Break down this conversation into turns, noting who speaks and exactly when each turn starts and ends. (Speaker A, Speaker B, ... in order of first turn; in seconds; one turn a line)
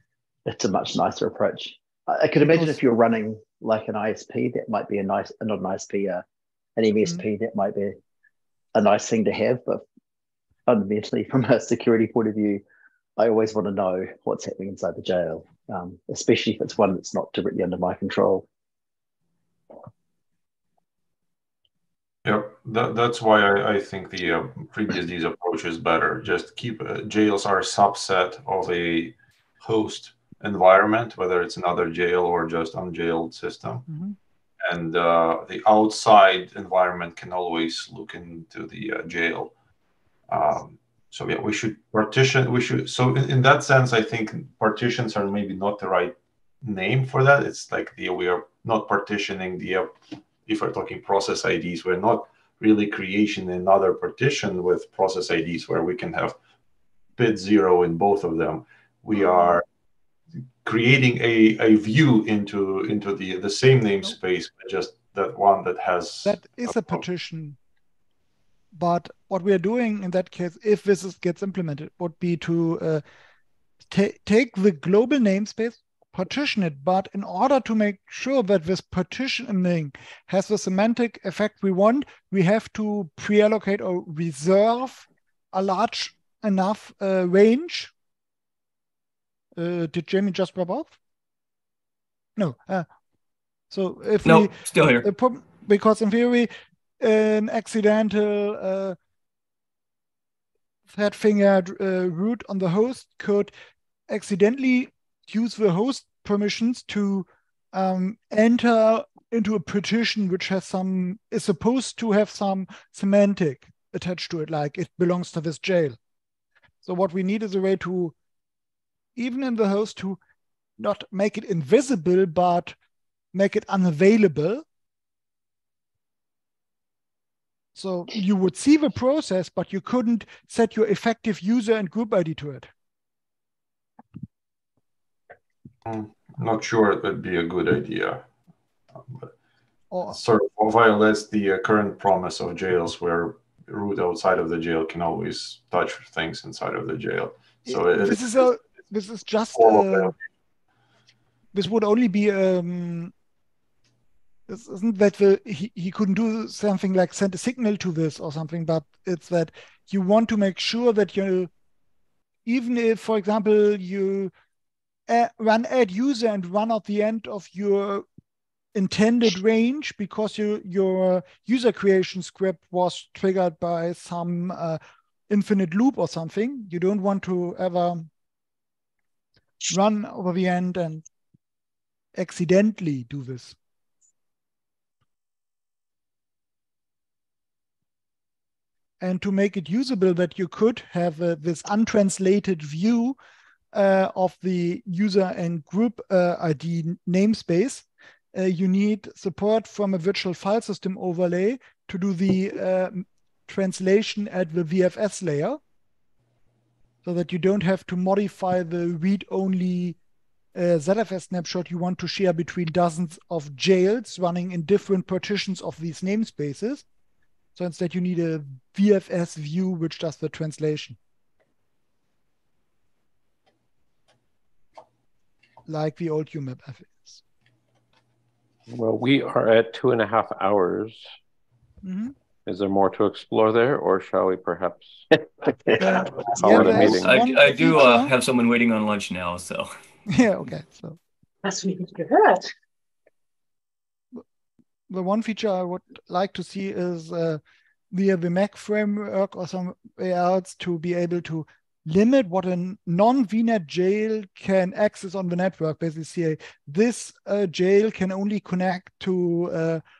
Speaker A: 0.5-6.2
Speaker A: 6.8-8.0
Speaker A: 8.7-9.8
Speaker A: 10.7-12.6
Speaker A: 13.2-18.4
Speaker B: 22.2-33.9
Speaker C: 33.9-34.1
Speaker B: 34.6-39.5
Speaker B: 40.3-56.4
Speaker B: 57.2-59.6
Speaker B: 60.6-67.0
Speaker C: 66.2-67.6
Speaker C: 68.7-73.0
Speaker C: 73.9-87.9
Speaker C: 89.5-91.0
Speaker C: 92.3-92.9
Speaker C: 93.7-99.0
Speaker D: 94.2-95.1
Speaker C: 100.9-103.5
Speaker C: 104.1-116.0
Speaker C: 116.8-118.1
Speaker C: 119.2-120.2
Speaker C: 120.8-122.8
Speaker C: 123.3-124.6
Speaker C: 127.7-132.7
Speaker B: 135.8-138.2
Speaker B: 139.0-139.3
Speaker C: 139.9-140.2
Speaker B: 140.1-148.2
Speaker C: 147.7-150.1
Speaker B: 149.5-150.1
Speaker C: 151.5-153.1
Speaker C: 154.5-161.5
Speaker C: 162.4-164.3
Speaker C: 165.1-168.1
Speaker C: 168.7-178.1
Speaker C: 179.7-181.0
Speaker C: 182.1-183.6
Speaker C: 189.0-193.2
Speaker C: 193.7-205.6
Speaker C: 207.0-210.0
Speaker C: 210.5-216.8
Speaker C: 217.6-221.0
Speaker C: 225.7-227.2
Speaker E: 228.7-231.1
Speaker C: 231.8-232.1
Speaker E: 232.4-235.0
Speaker A: 235.4-237.0
Speaker C: 235.8-238.1
Speaker E: 236.3-237.1
Speaker D: 236.5-239.7
Speaker C: 240.1-241.0
Speaker A: 241.4-242.5
Speaker C: 244.9-259.8